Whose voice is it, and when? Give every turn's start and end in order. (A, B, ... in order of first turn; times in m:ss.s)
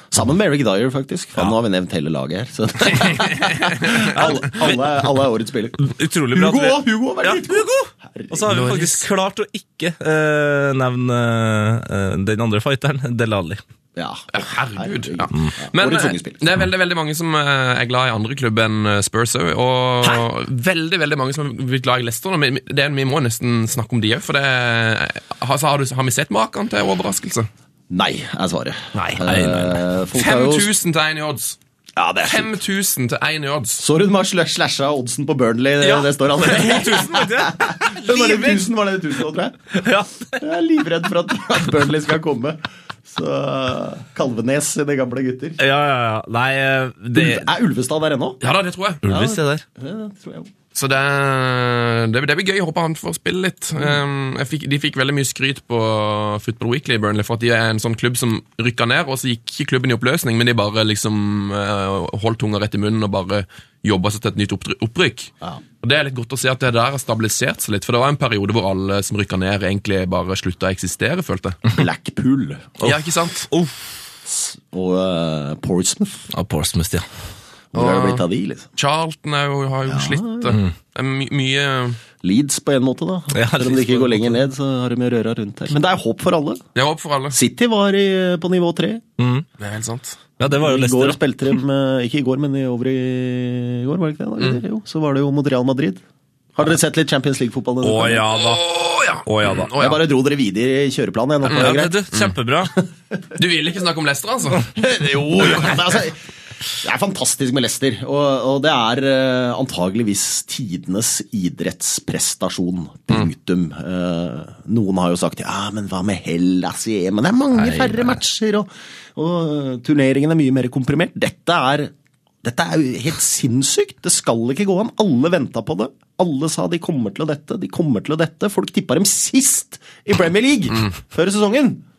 0:00.1-0:08.6 A
0:03.9-0:04.8 B
0:05.8-0:13.6 B
0:08.5-0:09.0 C
0:14.0-0:16.4 A
0:14.3-0:27.5 C
0:27.9-0:30.7 A
0:29.0-0:29.8 B
0:30.2-0:31.6 C
0:32.0-0:32.5 A
0:32.3-0:33.8 C
0:33.8-0:39.8 A
0:35.8-0:38.6 B
0:39.7-0:40.4 B
0:40.4-0:45.6 A
0:45.6-0:47.5 B
0:47.2-0:48.4 A
0:48.4-0:49.0 C
0:49.0-0:49.6 B
0:49.1-0:50.5 A
0:50.8-1:05.3 C
1:05.8-1:11.6 C
1:11.7-1:12.8 A
1:12.8-1:13.5 C
1:13.5-1:14.0 B
1:14.3-1:16.3 A
1:16.3-1:17.0 B
1:17.7-1:18.7 A
1:17.8-1:18.2 C
1:18.8-1:22.0 C
1:19.9-1:20.6 A
1:22.2-1:26.6 A
1:23.3-1:24.4 B
1:26.8-1:27.4 C
1:27.3-1:29.0 A
1:29.2-1:29.5 B
1:29.6-1:30.2 C
1:30.4-1:31.2 B
1:30.5-1:36.0 A
1:36.6-1:38.3 A
1:37.8-1:38.6 B
1:38.4-1:40.0 C
1:39.2-1:39.7 B
1:39.8-1:42.0 A
1:41.5-1:42.3 C
1:41.5-1:42.7 B
1:43.4-1:44.7 C
1:44.8-1:46.2 A
1:46.8-2:01.9 A
1:57.6-1:58.2 B
2:02.4-2:11.8 A